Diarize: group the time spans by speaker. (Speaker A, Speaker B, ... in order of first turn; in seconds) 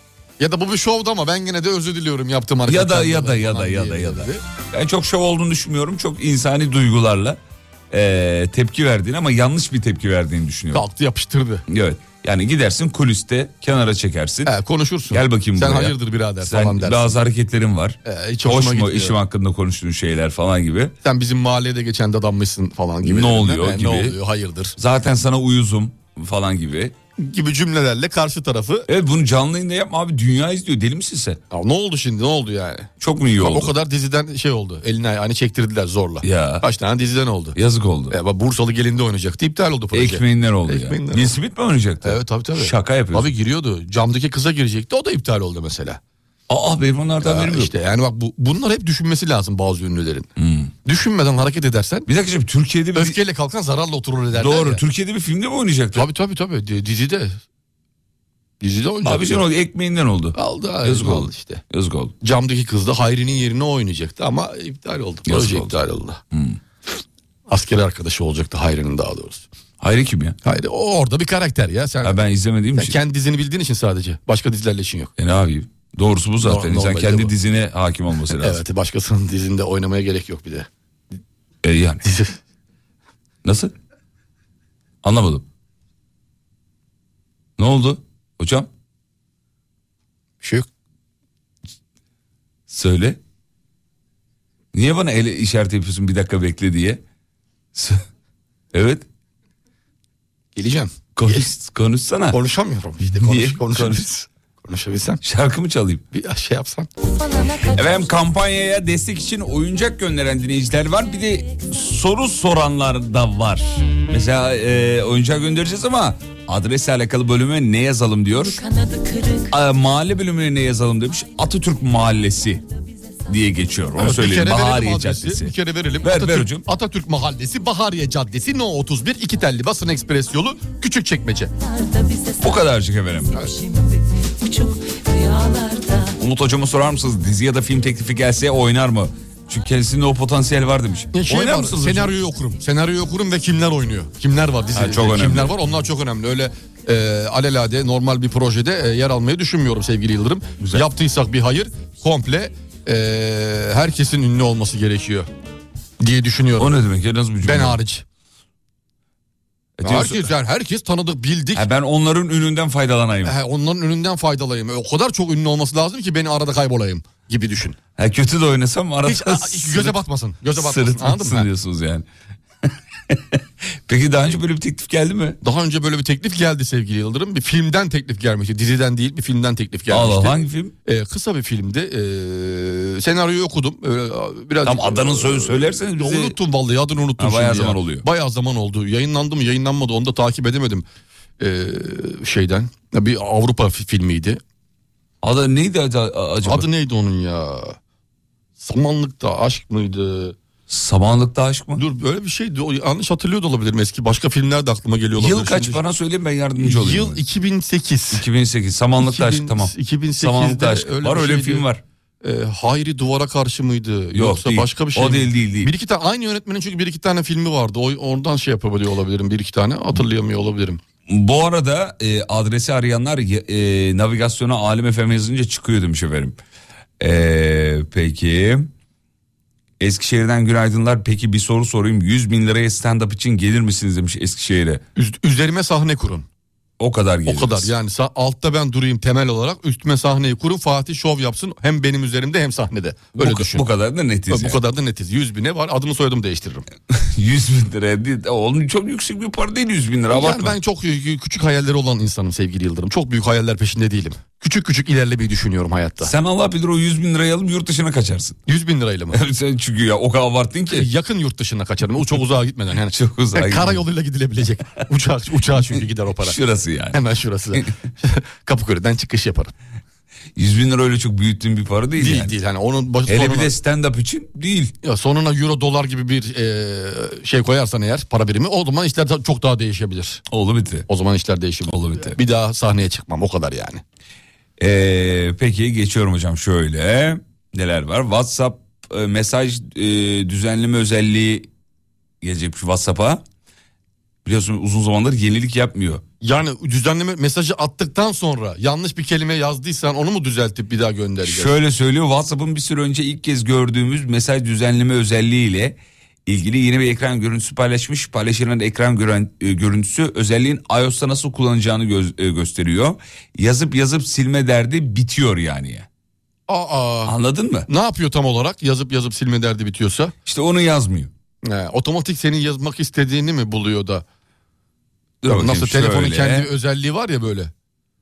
Speaker A: 0.4-4.4, 10.7-11.6, 14.4-17.2, 18.0-19.2, 21.0-24.8, 27.2-28.9, 31.5-37.6, 38.1-41.4, 42.0-46.0, 47.2-50.3, 50.8-52.1, 52.9-54.8, 55.9-57.4, 58.6-59.4, 60.3-61.6, 62.2-66.2, 67.5-69.5, 70.4-72.2, 72.8-75.1, 76.4-77.3, 78.4-80.7, 82.0-82.4, 90.4-90.7, 100.5-101.5, 102.3-105.2, 106.1-106.9, 124.0-131.5, 141.1-155.3, 156.0-156.8, 157.4-158.0, 159.8-161.7, 163.2-167.8, 169.0-171.5, 175.4-190.8, 191.4-194.4, 196.4-197.8, 198.6-200.3, 201.7-205.8, 206.6-208.2, 209.0-211.6, 212.2-220.8, 234.9-236.2, 237.3-243.7, 244.3-246.7, 250.1-256.1, 258.5-259.2, 260.7-266.4, 266.9-269.5, 272.0-273.5, 274.8-280.2, 280.9-283.8, 296.2-301.5, 316.5-317.1, 317.7-320.1, 321.4-324.0, 325.2-327.5
Speaker B: 2.6-7.4, 7.9-10.8, 11.7-14.5, 15.1-20.9, 23.0-24.2, 24.8-26.9, 28.9-31.4, 33.0-33.7, 36.2-36.6, 37.5-38.1, 39.9-43.3, 46.5-47.7, 50.4-50.7, 52.1-53.2, 54.3-56.1, 59.0-62.1, 65.2-65.7, 66.3-66.6, 69.8-70.4, 72.0-73.0, 75.2-78.6, 81.6-82.0, 83.4-83.7, 85.0-85.4, 87.6-88.7, 92.7-93.2, 94.7-97.0, 97.7-98.0, 98.7-99.0, 101.2-102.4, 103.0-104.0, 105.2-106.0, 107.6-118.6, 119.5-122.6, 123.2-126.7, 132.4-133.5, 136.2-142.1, 144.7-145.5, 150.6-150.8, 156.6-157.8, 159.8-160.3, 161.5-163.3, 168.0-170.0, 170.5-172.1, 172.6-175.4, 179.9-180.7, 184.6-186.3, 187.2-188.0, 195.2-196.7, 200.7-201.8, 205.2-207.2, 208.1-211.8, 214.1-215.7, 221.1-226.4, 227.0-228.7, 229.8-234.8, 236.8-237.7, 243.2-244.6, 246.9-250.6, 256.0-258.4, 259.1-260.9, 262.9-263.8, 266.2-267.0, 270.4-272.3, 273.1-274.7, 280.3-280.9, 281.7-282.2, 284.6-291.5, 292.2-293.2, 294.2-296.0, 301.2-315.9, 317.1-317.7, 320.2-321.1, 325.2-326.5
Speaker C: 118.8-119.5, 131.8-132.3, 133.4-136.1